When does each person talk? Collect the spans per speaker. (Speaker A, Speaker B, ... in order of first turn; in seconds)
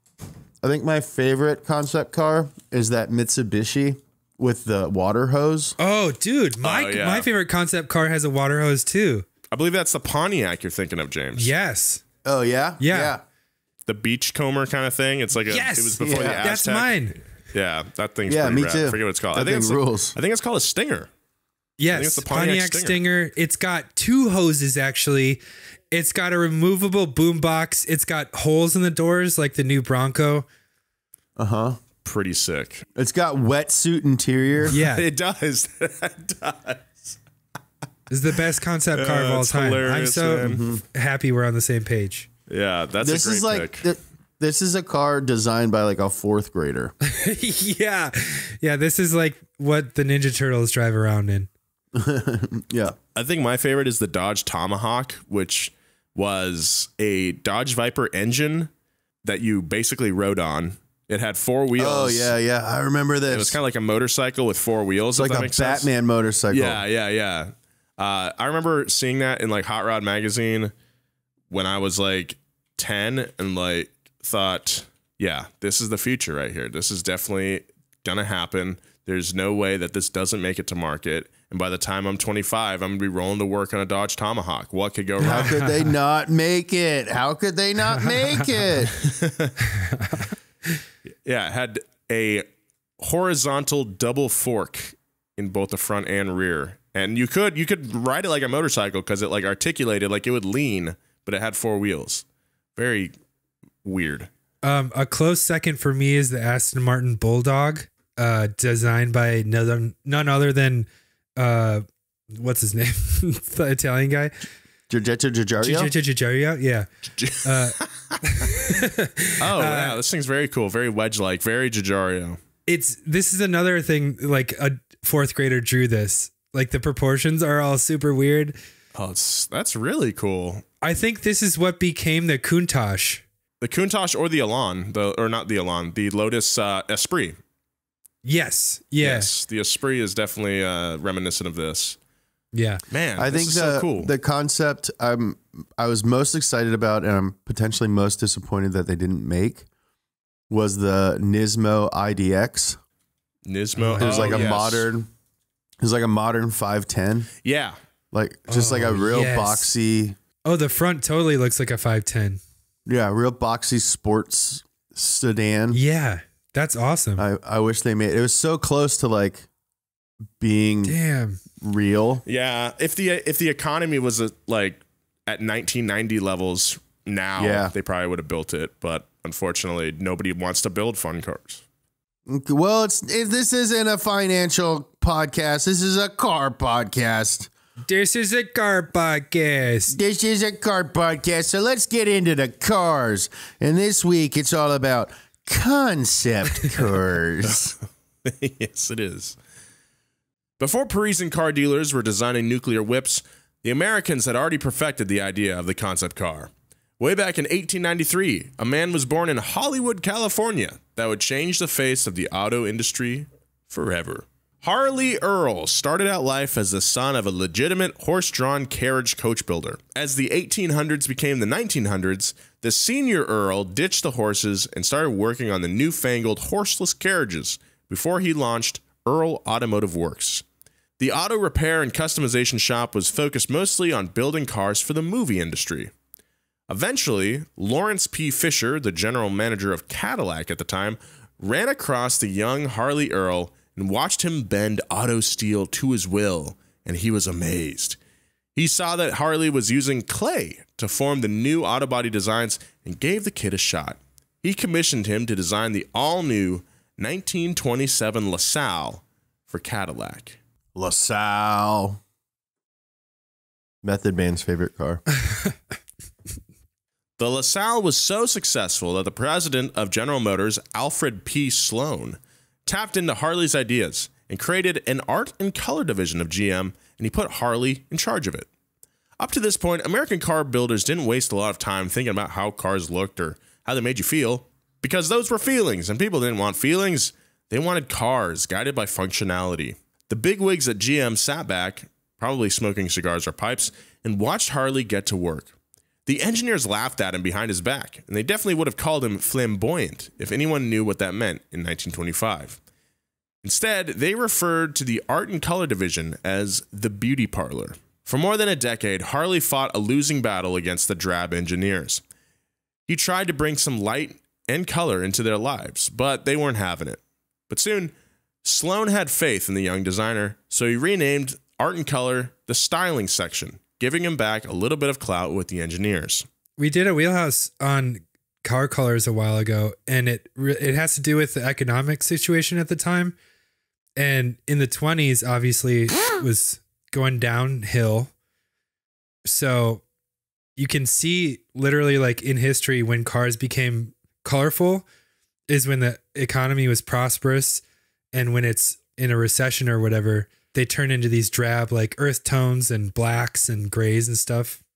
Speaker A: 0.6-5.8, 12.2-13.2, 16.0-16.5, 18.3-20.2, 31.4-31.8, 33.0-34.8, 40.4-40.8, 43.0-46.9, 52.0-53.0, 61.8-63.6, 65.1-66.8, 85.2-88.9, 114.9-115.9, 143.2-149.7, 150.5-152.8, 154.0-155.1, 155.8-157.3, 158.1-160.2, 162.9-165.8, 167.2-169.5, 170.4-171.0, 171.6-172.2, 177.4-177.7, 182.3-187.5, 189.9-197.8, 260.8-262.0, 263.8-265.0
Speaker B: 5.8-9.3, 11.4-12.0, 12.8-13.2, 15.5-17.2, 21.8-25.4, 25.9-30.5, 34.7-35.0, 38.1-42.3, 47.0-51.5, 85.2-85.7, 89.8-90.3, 104.6-114.3, 115.6-116.9, 117.4-120.0, 122.7-128.6, 130.8-133.2, 138.2-139.3, 142.5-142.8, 153.8-154.5, 158.5-159.7, 160.5-162.4, 165.7-167.2, 170.9-171.4, 187.9-190.0, 326.6-333.2, 334.0-338.1, 339.2-339.8, 340.6-344.9, 345.5-347.6, 348.1-354.6
Speaker C: 6.6-7.3, 9.5-11.5, 13.9-17.0, 17.5-21.1, 21.9-23.0, 32.0-32.9, 34.7-37.2, 38.9-40.6, 42.5-43.9, 53.1-58.7, 59.2-62.3, 63.3-65.9, 66.5-70.7, 71.5-85.8, 89.0-89.5, 91.2-92.5, 93.0-102.2, 102.8-103.1, 103.8-104.3, 117.2-118.7, 119.4-122.4, 128.9-130.6, 133.6-137.4, 139.0-142.0, 142.9-144.1, 153.4-154.9, 157.4-157.8, 172.3-181.6, 198.2-199.4, 200.6-230.4, 231.0-235.9, 236.7-248.0, 248.6-260.4, 267.2-278.5, 279.2-295.5, 296.1-302.6, 303.4-312.0, 312.9-317.9, 318.4-326.3